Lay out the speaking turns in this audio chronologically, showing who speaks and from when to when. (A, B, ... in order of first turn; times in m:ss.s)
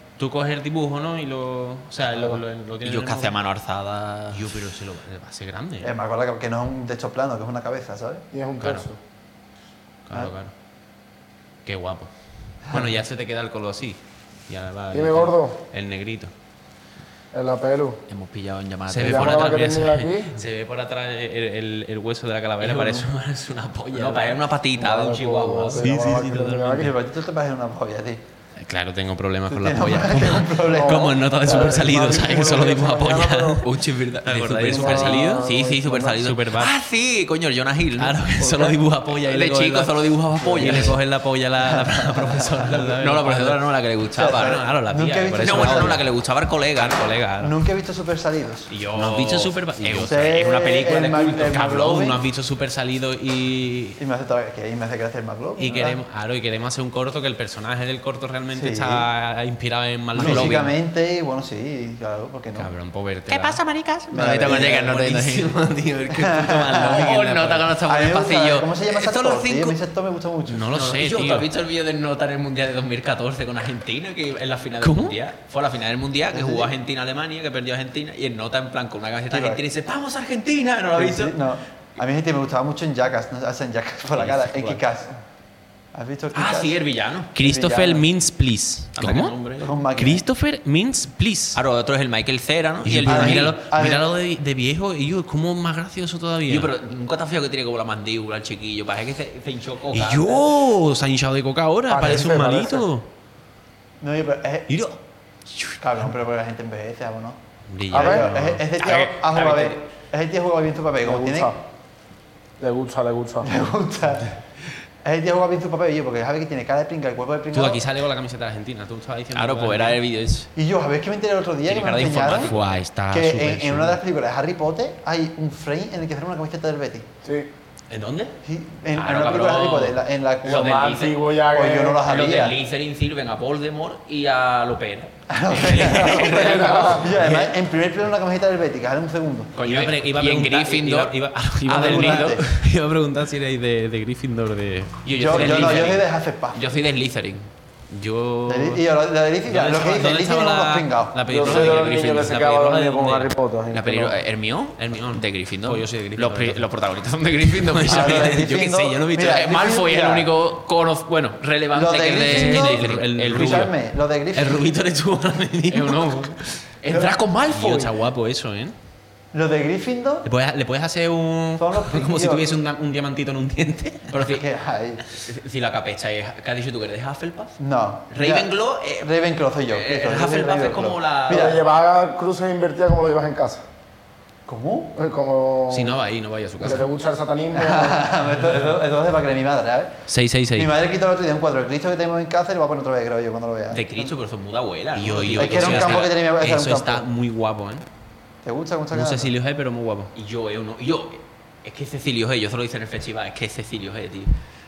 0:00.2-0:03.4 A
0:02.8-0:04.6 B
0:04.3-0:05.9 A
0:05.8-0:08.2 C
0:08.3-0:09.0 D
0:08.6-0:08.9 A
0:10.0-0:10.5 A
0:11.6-0:12.1 A
0:12.6-0:16.3 A
0:14.9-0:15.6 D
0:17.3-0:18.0 D
0:18.1-0:19.7 B
0:18.9-0:24.4 A
0:19.0-0:20.4 D
0:22.6-0:23.0 B
0:23.9-0:25.9 B
0:24.8-0:26.9 D
0:25.6-0:26.5 A
0:25.7-0:28.2 C
0:28.6-0:33.7 A
0:29.5-0:33.6 C
0:30.6-0:31.9 D
0:32.0-0:41.0 B
0:34.2-0:35.4 A
0:34.7-0:36.1 C
0:34.9-0:35.7 D
0:36.1-0:36.7 A
0:38.0-0:43.6 A
0:40.4-0:41.0 C
0:41.6-0:42.8 C
0:42.7-0:44.6 B
0:44.2-0:46.0 C
0:44.2-0:46.0 A
0:45.4-0:47.1 B
0:46.8-0:47.5 A
0:47.4-0:48.7 C
0:48.7-0:54.0 A
0:48.9-0:50.3 B
0:49.9-0:52.2 C
0:54.0-0:56.0 C
0:55.6-1:00.7 A
0:58.5-0:59.1 C
1:00.1-1:00.6 B
1:00.1-1:02.7 C
1:02.5-1:07.7 A
1:03.3-1:05.6 B
1:04.1-1:05.0 C
1:06.1-1:07.1 C
1:06.7-1:09.8 B
1:07.8-1:10.8 C
1:10.5-1:11.5 A
1:10.7-1:21.4 B
1:14.8-1:15.2 A
1:16.3-1:16.7 C
1:19.3-1:19.6 C
1:20.9-1:25.2 C
1:24.2-1:24.8 A
1:25.9-1:26.8 C
1:26.3-1:27.3 B
1:27.3-1:28.1 C
1:27.3-1:29.4 A
1:29.0-1:29.8 B
1:29.6-1:30.2 C
1:30.0-1:31.6 A
1:31.5-1:33.6 B
1:32.8-1:36.7 A
1:33.0-1:34.1 C
1:36.5-1:40.6 B
1:39.9-1:43.1 A
1:41.9-1:42.9 D
1:42.0-1:42.3 C
1:44.0-1:44.8 C
1:44.7-1:45.0 A
1:45.5-1:45.8 A
1:45.8-1:47.4 C
1:47.7-1:49.7 A
1:47.9-1:51.5 C
1:47.9-1:48.5 B
1:49.3-1:49.7 B
1:51.0-1:51.5 D
1:52.6-1:53.5 D
1:53.4-1:54.4 C
1:55.0-1:57.8 C
1:57.5-2:00.0 A
1:59.3-2:00.5 B
2:00.6-2:02.5 C
2:01.7-2:02.8 B
2:02.3-2:04.0 A
2:03.1-2:07.0 C
2:07.2-2:07.5 D
2:07.9-2:08.3 A
2:08.4-2:10.9 C
2:09.0-2:11.2 B
2:10.5-2:12.0 D
2:11.5-2:12.6 C
2:12.0-2:17.4 B
2:15.3-2:19.5 C
2:15.7-2:16.6 A
2:16.0-2:17.0 D
2:19.6-2:22.4 B
2:19.6-2:25.9 A
2:21.7-2:22.4 C
2:25.1-2:27.5 B
2:25.1-2:26.6 C
2:27.9-2:28.8 A
2:28.4-2:31.9 C
2:29.5-2:33.3 A
2:31.3-2:34.2 D
2:31.4-2:31.8 B
2:33.7-2:38.6 B
2:34.8-2:36.6 A
2:37.5-2:39.2 A
2:37.8-2:40.3 C
2:39.1-2:43.7 B
2:41.7-2:44.7 C
2:42.1-2:43.7 A
2:44.3-2:48.8 A
2:45.7-2:46.1 B
2:46.9-2:47.9 B
2:46.9-2:47.2 C
2:49.3-2:50.3 C
2:50.2-2:54.4 A
2:51.6-2:52.5 C
2:54.1-2:54.4 B
2:54.2-2:55.0 C
2:55.1-2:57.6 B
2:57.6-3:01.6 C
2:58.1-2:59.1 B
2:59.6-3:01.6 B
3:01.3-3:03.6 D
3:04.4-3:04.9 C
3:04.9-3:06.0 D
3:05.7-3:06.8 A
3:06.6-3:08.1 D
3:07.5-3:09.9 C
3:10.1-3:10.7 A
3:10.5-3:14.1 C
3:13.7-3:16.1 B
3:14.9-3:17.8 A
3:15.4-3:17.0 C
3:18.4-3:19.3 C
3:18.9-3:20.1 A
3:20.1-3:24.3 B